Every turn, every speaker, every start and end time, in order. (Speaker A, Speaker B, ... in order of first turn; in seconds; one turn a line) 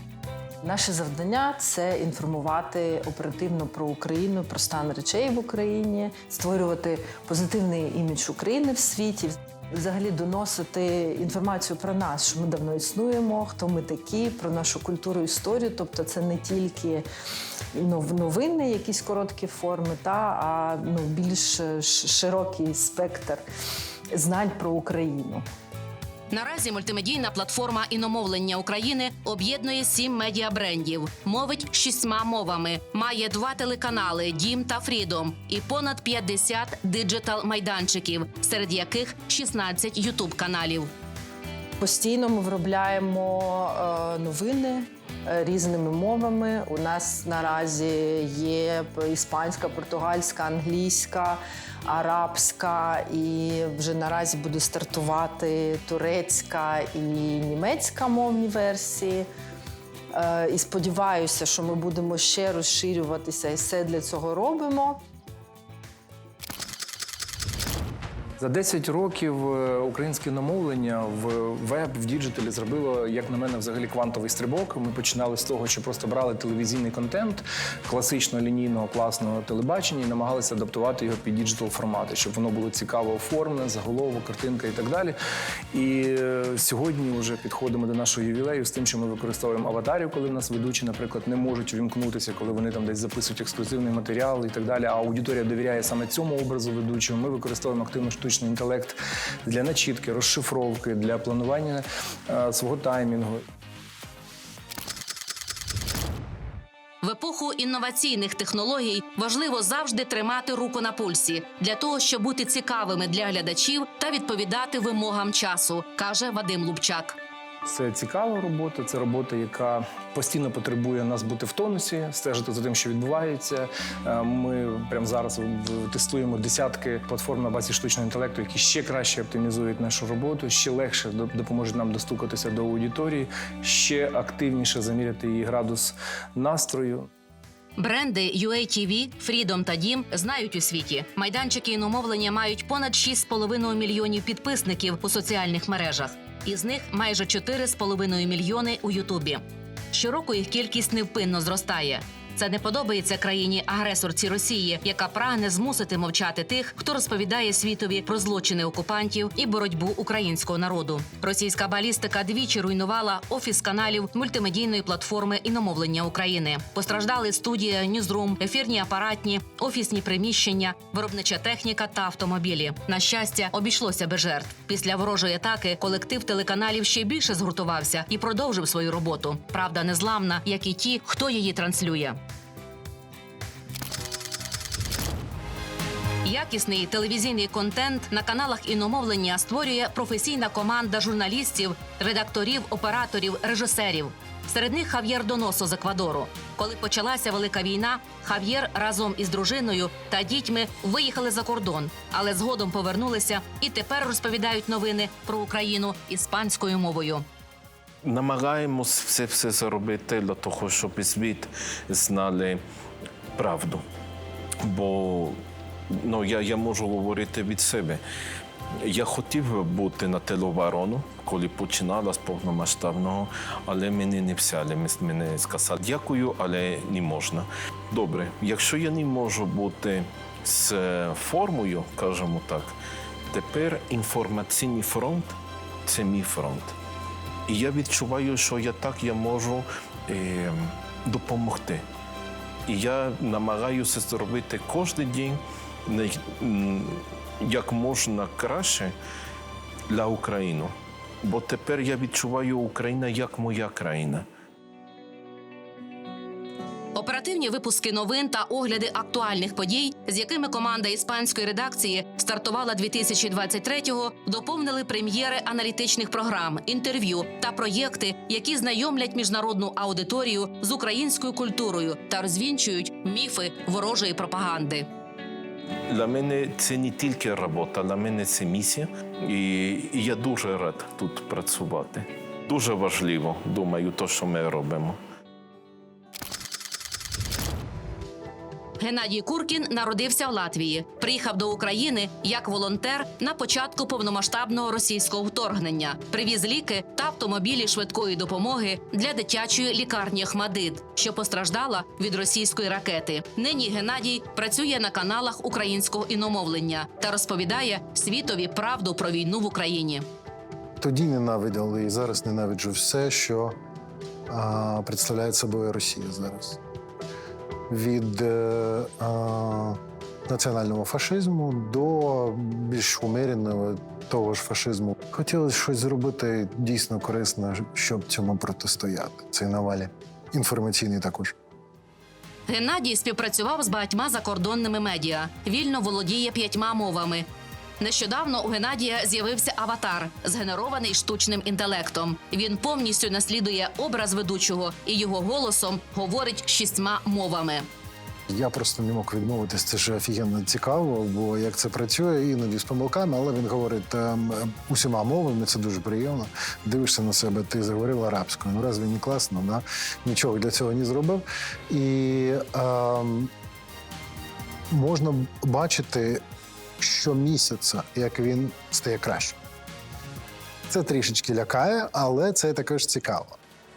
Speaker A: 0.6-17.0
Speaker A: 17.7-23.4
Speaker A: 24.1-25.4
Speaker B: 26.3-40.9
Speaker A: 41.8-59.2
Speaker A: 60.1-65.0
Speaker C: 68.4-85.2
Speaker C: 85.7-103.4
Speaker B: 107.0-117.2
Speaker C: 117.7-137.1
Speaker B: 137.8-182.2
Speaker B: 186.2-207.2
Speaker D: 208.0-212.6
Speaker D: 213.3-213.8
Speaker D: 214.6-215.4
Speaker D: 215.9-218.0
Speaker D: 218.8-232.7
Speaker D: 233.3-235.3
Speaker D: 235.8-236.7
Speaker D: 237.5-241.8
Speaker D: 242.7-248.9
Speaker D: 249.9-254.2
Speaker B: 256.9-274.9
Speaker D: 275.9-285.0
Speaker B: 288.8-310.1
Speaker E: 310.8-313.6
Speaker E: 314.3-316.6
Speaker E: 317.7-331.3
Speaker B: 332.5-337.2
Speaker B: 337.8-347.6
Speaker E: 348.3-363.3
Speaker E: 364.7-366.2
Speaker E: 366.8-369.4
Speaker E: 370.7-373.4